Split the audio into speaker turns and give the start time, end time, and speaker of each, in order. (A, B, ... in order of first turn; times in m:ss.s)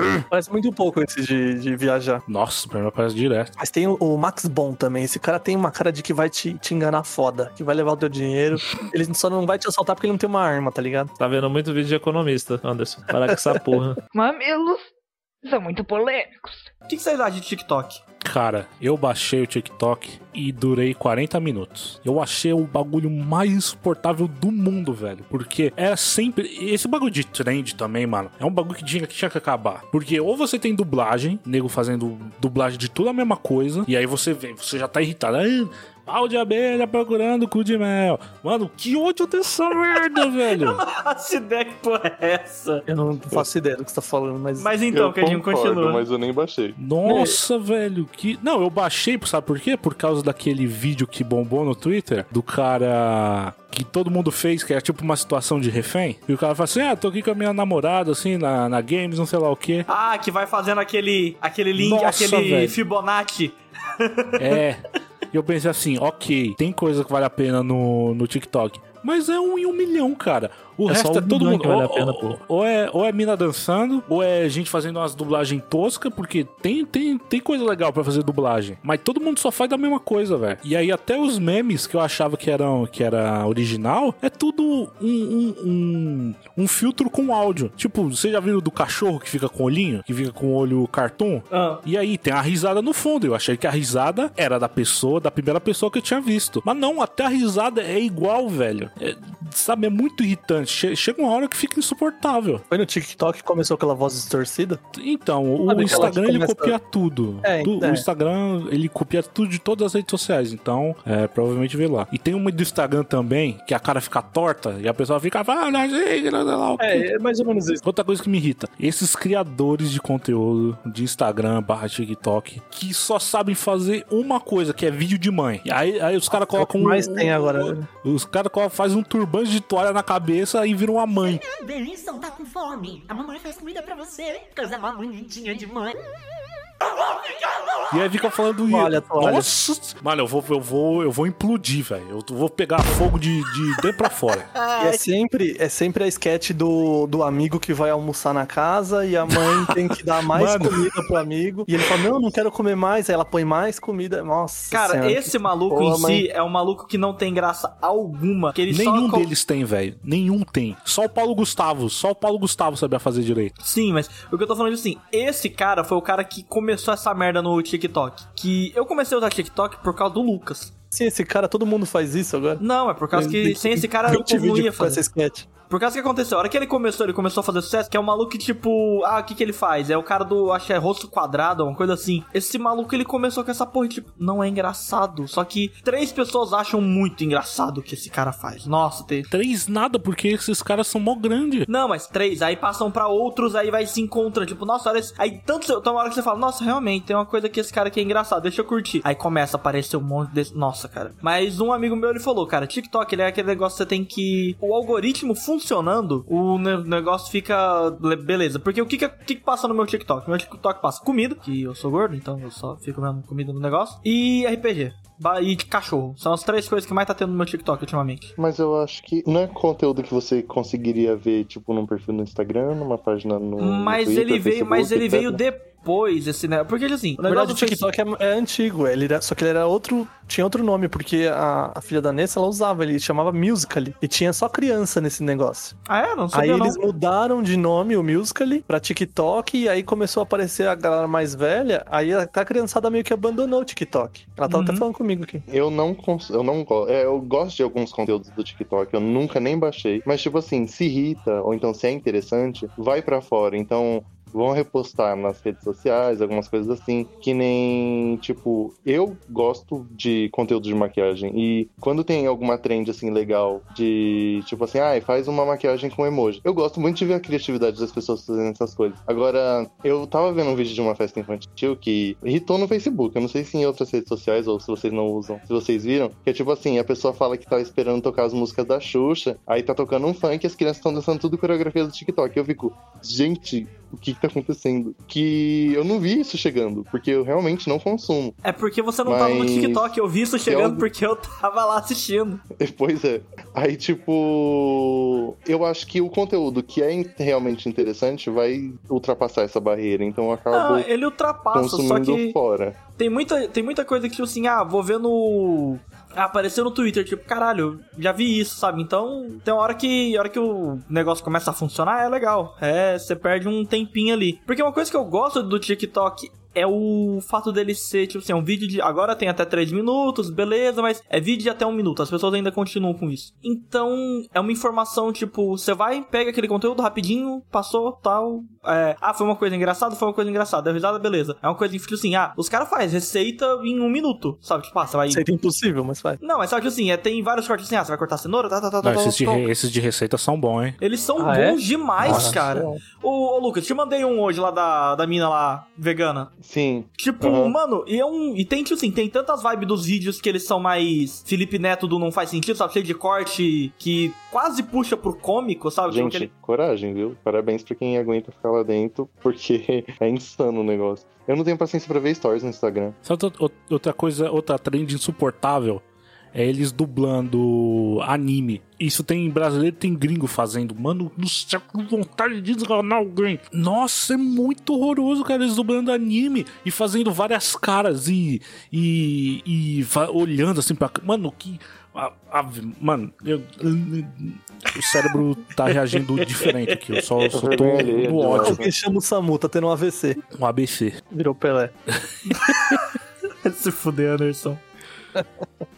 0:00.3-0:02.2 A
0:02.3-0:03.5 B
0:03.6-0:11.1 A
0:11.2-0:14.0 C
0:13.2-0:13.8 A
0:14.1-0:14.9 D
0:15.4-0:16.7 D
0:16.9-0:18.0 E
0:18.2-0:40.8 B
0:40.5-0:42.8 E
0:42.9-0:44.7 A
0:44.6-0:46.0 E
0:44.9-0:46.8 F
0:46.8-0:59.9 B
0:47.0-0:47.4 A
0:59.9-1:04.6 E
1:01.7-1:02.8 B
1:04.4-1:42.6 B
1:10.9-1:12.4 C
1:31.5-1:31.8 E
1:42.7-1:44.8 A
1:44.9-1:57.1 B
1:45.6-1:46.8 A
1:47.4-1:48.0 A
1:56.8-1:57.8 A
1:57.8-2:11.4 B
2:06.3-2:07.9 A
2:11.5-2:15.9 G
2:17.9-2:24.5 B
2:18.7-2:19.5 A
2:24.5-2:25.0 E
2:24.8-2:35.4 A
2:30.4-2:30.8 B
2:34.7-2:39.3 E
2:35.7-2:36.2 F
2:38.7-2:43.5 B
2:43.6-2:50.7 E
2:50.9-2:52.6 A
2:52.6-2:55.0 E
2:53.1-2:55.5 A
2:55.7-3:09.3 E
3:09.3-3:11.6 B
3:11.7-3:38.3 E
3:38.4-3:45.4 F
3:43.6-3:47.8 E
3:47.2-3:55.8 A
3:55.9-3:56.8 E
3:56.3-4:05.4 A
4:04.5-4:04.8 E
4:05.5-4:48.4 F
4:48.4-4:52.4 E
4:49.0-4:49.9 F
4:50.4-4:50.9 F
4:52.6-5:00.9 F
5:00.5-5:02.4 E
5:01.5-5:02.8 F
5:03.0-5:35.2 E
5:35.1-5:36.2 A
5:36.2-5:39.5 E
5:38.8-5:40.8 B
5:40.8-5:46.3 E
5:41.2-5:42.8 A
5:42.0-5:42.4 B
5:46.4-5:47.6 F
5:47.0-5:56.3 E
5:55.9-6:03.0 F
6:03.0-6:28.6 B
6:26.2-6:27.3 E
6:27.3-6:28.7 F
6:28.4-6:30.2 A
6:30.4-6:31.0 B
6:31.1-6:31.7 A
6:32.3-6:32.9 E
6:33.4-6:34.6 E
6:35.2-6:35.6 A